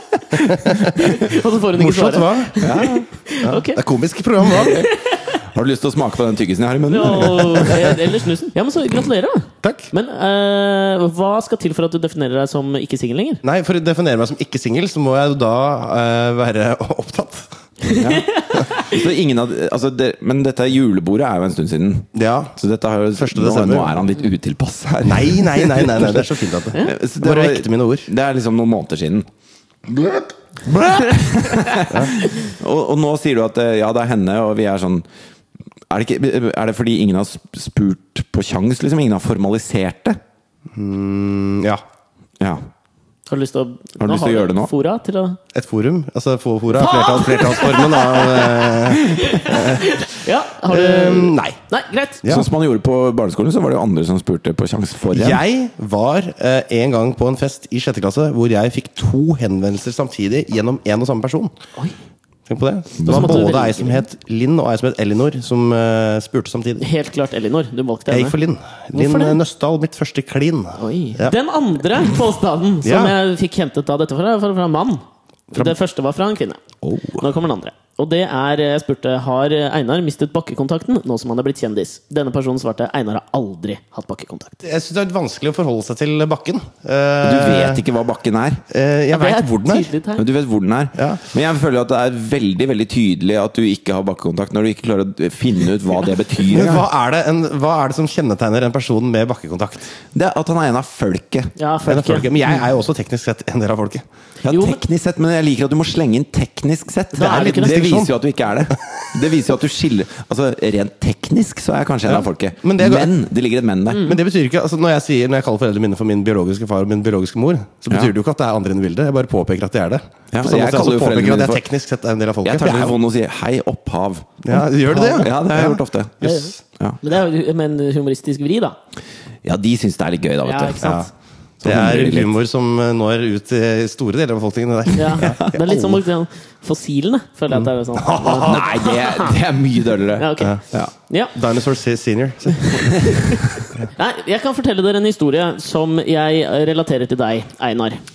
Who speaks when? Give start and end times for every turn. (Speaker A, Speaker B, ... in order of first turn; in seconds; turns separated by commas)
Speaker A: 0.3-1.2, Speaker B: 0.8-3.8, Speaker A: 1.7-2.6, Speaker C: 2.6-3.0, Speaker A: 3.4-4.8, Speaker B: 4.4-5.3, Speaker C: 4.6-7.9, Speaker B: 6.9-13.4, Speaker A: 9.6-9.9, Speaker A: 13.4-17.5, Speaker B: 17.9-19.0, Speaker C: 17.9-29.3, Speaker A: 22.1-22.5, Speaker A: 23.1-24.0, Speaker A: 25.0-28.1, Speaker C: 29.9-35.0, Speaker B: 31.5-32.5, Speaker C: 35.9-40.2, Speaker A: 40.7-41.8, Speaker B: 43.3-45.4, Speaker C: 44.0-44.7, Speaker A: 45.5-50.0, Speaker B: 46.7-52.2, Speaker A: 50.7-51.6, Speaker A: 52.2-52.5, Speaker C: 52.2-55.4, Speaker A: 55.1-61.5, Speaker A: 62.5-66.8, Speaker C: 63.0-63.5, Speaker B: 63.0-64.0, Speaker B: 66.8-68.3, Speaker A: 68.1-71.3, Speaker B: 68.9-69.4, Speaker B: 70.8-76.6, Speaker A: 72.8-73.2, Speaker B: 77.1-84.6, Speaker A: 84.6-87.8, Speaker C: 87.2-88.6, Speaker A: 88.7-89.9, Speaker B: 89.1-90.2, Speaker C: 90.2-96.9, Speaker A: 90.9-91.2, Speaker A: 96.4-99.9, Speaker C: 100.1-101.5, Speaker B: 101.6-102.3, Speaker A: 101.8-104.0, Speaker C: 104.4-114.1, Speaker B: 104.5-104.8, Speaker B: 107.1-107.9, Speaker A: 107.2-108.1, Speaker A: 112.0-113.1, Speaker A: 113.9-123.0, Speaker C: 120.3-121.6, Speaker C: 122.4-127.0, Speaker A: 124.4-126.5, Speaker B: 126.2-126.5, Speaker B: 127.0-128.8, Speaker C: 129.4-131.0, Speaker B: 130.4-131.1, Speaker A: 130.8-131.1, Speaker C: 131.6-132.3, Speaker A: 131.6-136.0, Speaker B: 134.9-139.4, Speaker C: 135.2-135.5, Speaker A: 137.5-138.7, Speaker C: 138.3-140.9, Speaker B: 140.2-141.3, Speaker A: 141.3-143.0, Speaker B: 142.6-148.0, Speaker C: 142.9-143.6